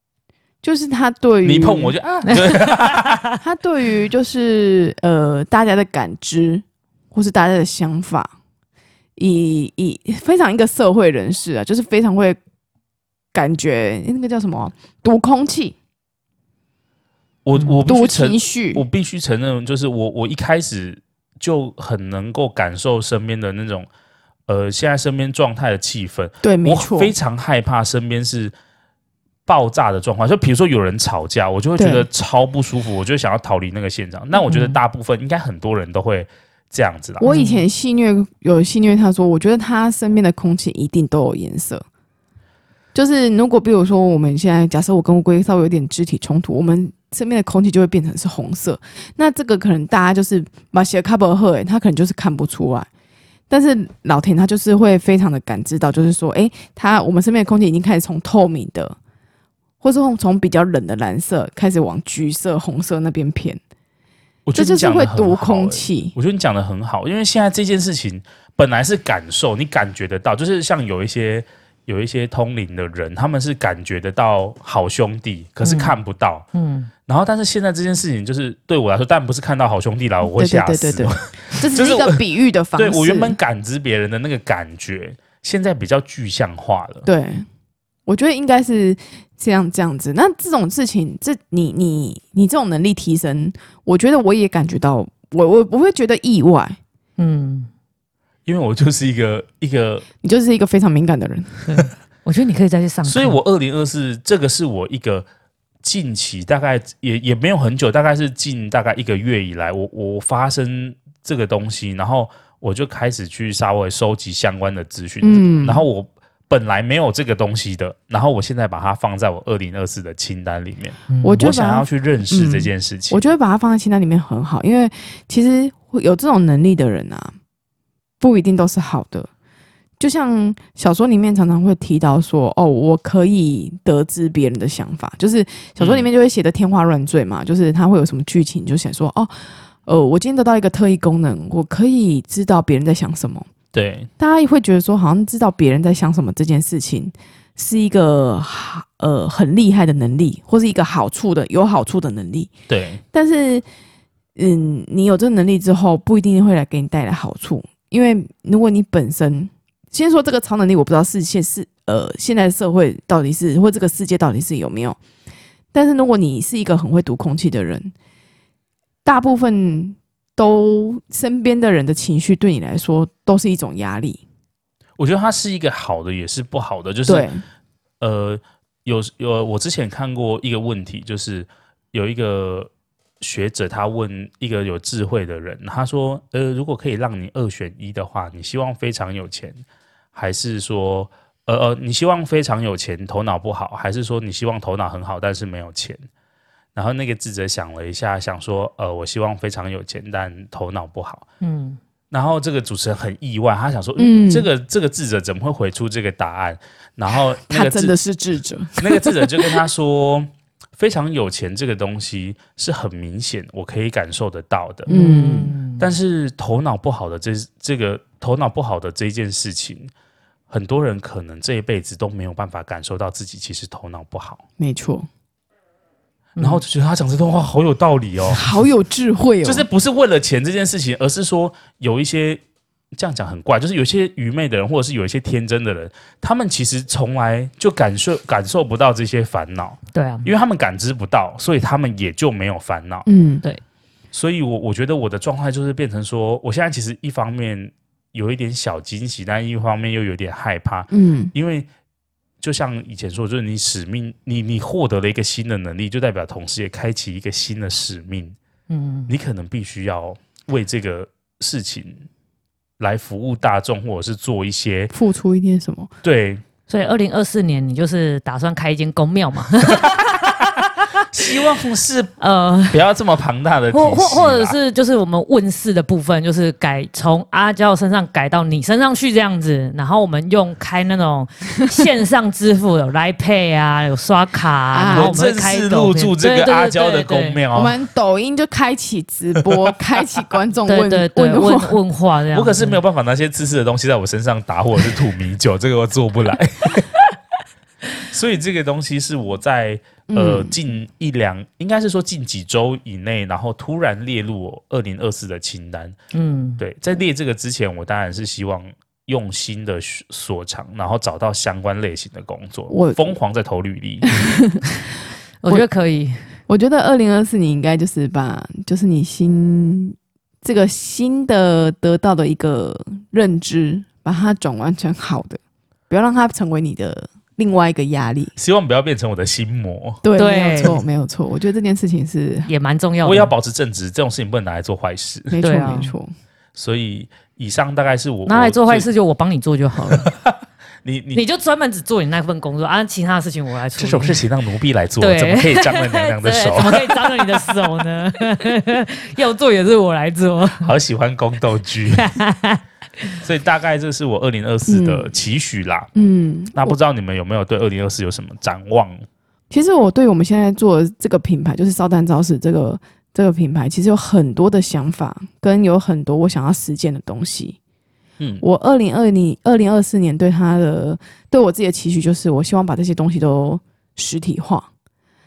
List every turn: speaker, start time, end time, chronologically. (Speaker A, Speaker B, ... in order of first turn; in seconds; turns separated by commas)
Speaker A: 0.6-2.0, Speaker B: 1.4-3.3, Speaker C: 2.3-3.2, Speaker A: 3.4-8.3, Speaker A: 9.2-12.4, Speaker A: 13.3-15.8, Speaker B: 17.4-23.9, Speaker A: 17.8-18.8, Speaker B: 24.5-28.5, Speaker A: 26.4-27.1, Speaker B: 29.4-37.3, Speaker A: 31.8-32.1, Speaker C: 34.4-34.8, Speaker A: 37.2-41.8, Speaker C: 37.3-37.6, Speaker A: 42.9-52.9, Speaker A: 53.5-59.0, Speaker A: 59.8-63.6, Speaker B: 64.5-76.5, Speaker A: 64.5-66.1, Speaker C: 75.6-75.9, Speaker C: 76.5-76.9, Speaker B: 77.1-82.2, Speaker A: 80.3-83.4, Speaker B: 82.8-87.1, Speaker A: 87.0-87.5, Speaker A: 88.0-96.8, Speaker C: 97.2-97.7, Speaker B: 98.5-100.0, Speaker A: 100.2-101.5, Speaker C: 101.7-103.4, Speaker B: 103.0-105.2, Speaker B: 105.8-123.2, Speaker A: 115.2-115.8, Speaker C: 121.1-121.4, Speaker A: 121.2-127.3, Speaker A: 128.2-129.3, Speaker A: 130.0-143.5, Speaker B: 135.8-136.1, Speaker B: 143.7-144.1, Speaker A: 144.2-152.5, Speaker B: 152.7-153.0, Speaker A: 153.1-153.6, Speaker A: 154.3-165.0, Speaker A: 165.7-167.9, Speaker A: 169.0-174.2, Speaker B: 175.0-177.3, Speaker A: 177.1-177.4, Speaker B: 178.0-189.6, Speaker B: 190.1-196.1, Speaker B: 196.7-201.2, Speaker C: 201.4-201.8, Speaker B: 202.1-207.9, Speaker A: 204.0-204.5, Speaker A: 207.4-209.6, Speaker B: 208.8-214.9, Speaker A: 214.9-215.5, Speaker C: 214.9-215.8, Speaker B: 215.8-219.9, Speaker B: 220.5-224.4, Speaker A: 224.6-225.1, Speaker C: 226.4-226.6, Speaker B: 226.4-228.4, Speaker A: 228.3-229.7, Speaker B: 229.4-232.4, Speaker B: 232.9-243.1, Speaker C: 239.9-240.3, Speaker A: 243.1-243.4, Speaker B: 244.1-251.7, Speaker A: 250.9-251.3, Speaker B: 252.4-258.4, Speaker C: 258.7-259.1, Speaker B: 259.1-262.1, Speaker B: 262.8-264.9, Speaker A: 264.9-265.9, Speaker B: 266.0-266.4, Speaker C: 266.7-270.5, Speaker B: 269.7-270.0, Speaker B: 271.0-272.1, Speaker C: 272.2-272.8, Speaker B: 272.7-274.6, Speaker C: 273.7-287.4, Speaker A: 284.7-285.2, Speaker B: 284.9-287.8, Speaker A: 287.5-291.8, Speaker B: 289.4-289.7, Speaker C: 290.7-292.8, Speaker B: 292.3-296.9, Speaker B: 298.1-305.9, Speaker A: 300.1-300.5, Speaker C: 306.1-306.6, Speaker B: 306.6-314.2, Speaker A: 312.7-313.1, Speaker A: 314.1-314.6, Speaker C: 315.4-316.3, Speaker A: 316.5-328.3, Speaker B: 328.4-330.0, Speaker A: 330.0-332.5, Speaker C: 330.2-330.8, Speaker C: 332.5-333.3, Speaker B: 333.0-335.4, Speaker A: 335.3-336.1, Speaker C: 335.4-335.9, Speaker B: 336.5-338.9, Speaker C: 338.2-340.1, Speaker B: 339.9-341.2, Speaker C: 341.1-344.2, Speaker B: 343.8-347.4, Speaker C: 345.0-350.7, Speaker B: 350.6-352.1, Speaker C: 351.9-352.6, Speaker B: 353.2-355.9, Speaker A: 354.6-355.1, Speaker A: 355.9-356.8, Speaker B: 356.5-359.0, Speaker A: 359.5-367.6, Speaker A: 368.4-374.7